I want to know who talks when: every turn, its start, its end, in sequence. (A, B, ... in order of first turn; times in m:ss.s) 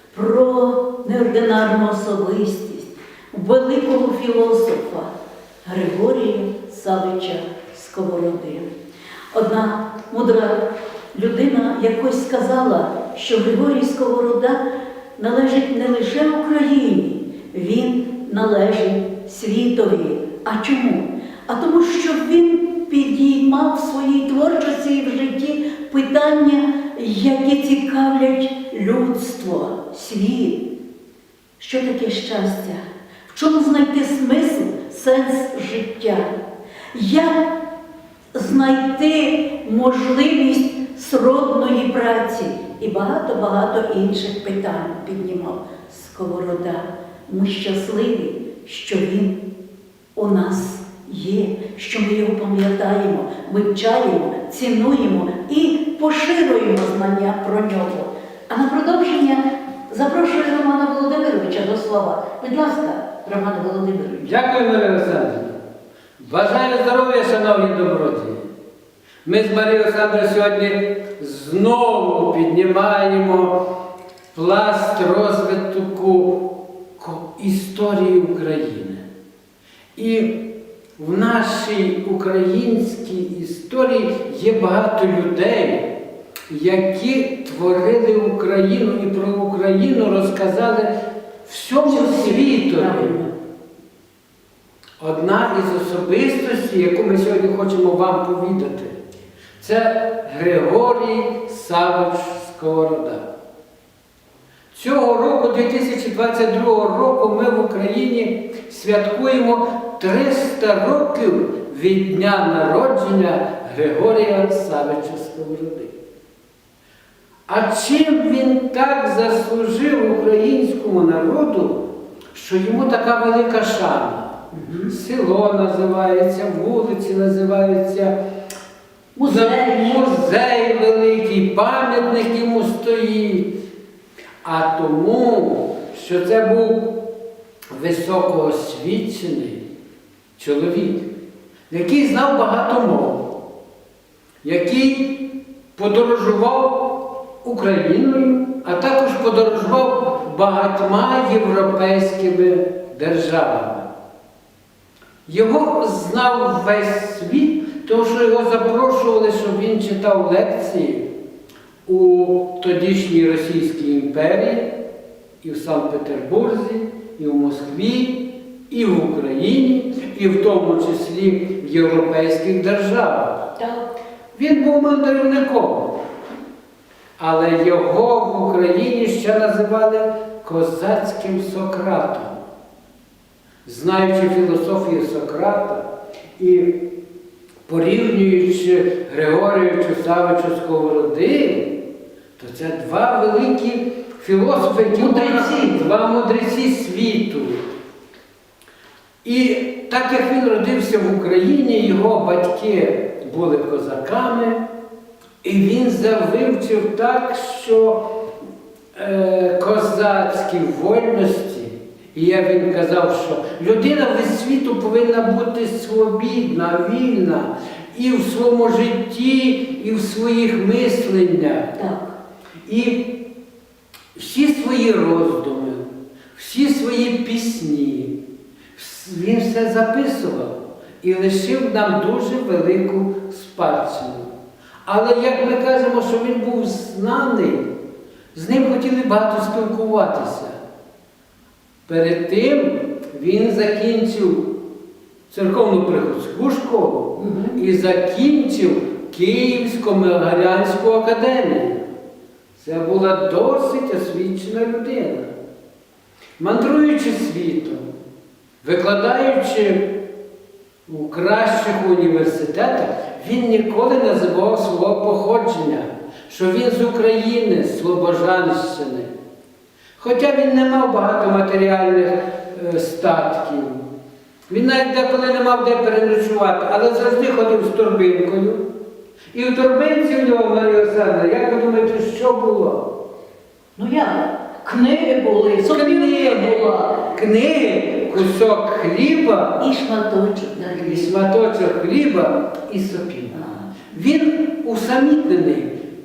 0:00.1-0:05.1 A
0:05.6-0:08.7 A
0:09.3-0:14.6 A
0:15.2-0:30.6 A
0:31.6-0:36.3 A
0:36.9-0:37.5 A
0:38.4-0:49.4 A
0:50.2-1:04.3 A
1:04.2-1:05.6 B
1:06.2-1:08.5 B
1:09.2-1:13.7 B
1:14.3-1:19.0 B
1:20.0-1:20.4 B
1:21.0-1:26.0 B
1:26.5-1:30.9 B
1:31.5-1:33.2 B
1:31.8-1:33.3 A
1:35.0-1:39.0 B
1:39.6-1:43.3 B
1:44.7-1:55.9 B
1:57.5-2:04.3 B
2:04.5-2:04.9 A
2:04.9-2:08.2 B
2:09.2-2:10.1 A
2:09.2-2:13.5 B
2:14.4-2:17.1 B
2:17.7-2:19.6 B
2:20.4-2:21.0 B
2:21.7-2:23.3 B
2:24.4-2:33.9 B
2:35.3-2:41.1 B
2:41.9-2:44.7 B
2:45.4-2:53.5 B
2:53.6-2:53.9 A
2:54.4-2:56.0 B
2:57.2-3:02.4 B
3:03.6-3:05.8 B
3:06.4-3:06.8 B
3:07.7-3:11.7 B
3:12.4-3:17.6 B
3:14.9-3:15.8 A
3:19.2-3:24.6 B
3:25.4-3:28.1 B
3:29.0-3:41.7 B
3:41.8-3:42.2 A
3:42.7-3:43.2 B
3:44.2-3:48.2 B
3:48.8-3:54.3 B
3:54.8-3:57.7 B
3:58.3-4:00.6 B
4:01.9-4:04.5 B
4:05.3-4:11.8 B
4:07.2-4:07.6 A
4:12.6-4:15.3 B
4:16.4-4:17.9 B
4:18.6-4:20.0 B
4:20.9-4:29.1 B
4:30.0-4:33.8 B
4:34.5-4:38.6 B
4:39.3-4:42.9 B
4:43.8-4:47.0 A
4:45.6-4:49.7 B
4:49.6-4:51.1 A
4:50.6-4:55.7 B
4:53.4-4:53.6 A